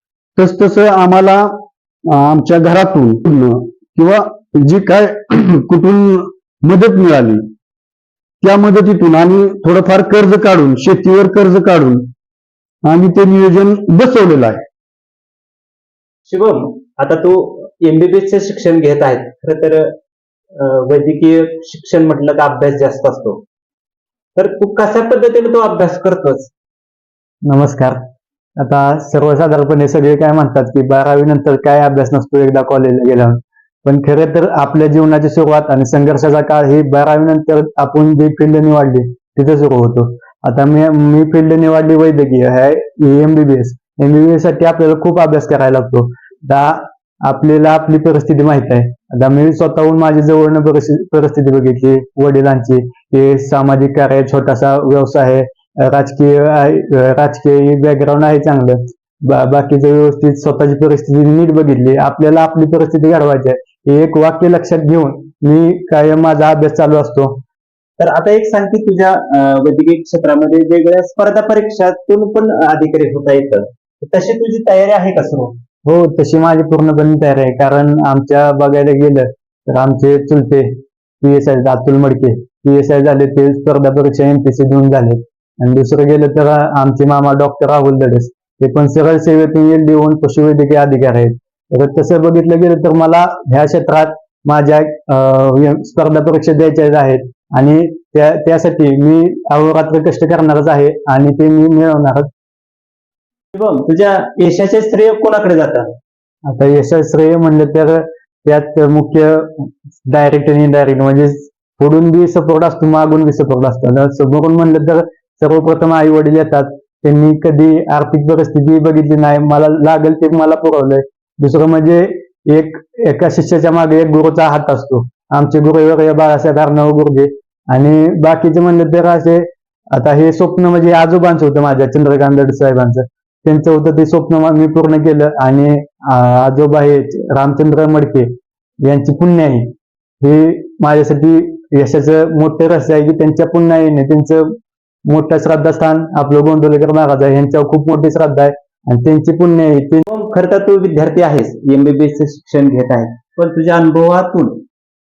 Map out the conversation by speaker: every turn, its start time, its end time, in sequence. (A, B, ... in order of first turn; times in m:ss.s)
0:00.4-0:07.4 A
0:08.4-0:12.0 A
0:12.8-0:14.6 A
0:16.3-0:19.9 B
0:20.5-0:23.4 B
0:24.4-0:26.5 B
0:27.4-0:28.0 C
0:28.6-1:07.4 C
1:08.0-1:15.6 B
1:15.8-1:42.3 C
1:43.6-1:45.9 B
1:46.4-2:24.6 C
2:25.1-2:30.0 C
2:30.1-2:34.6 B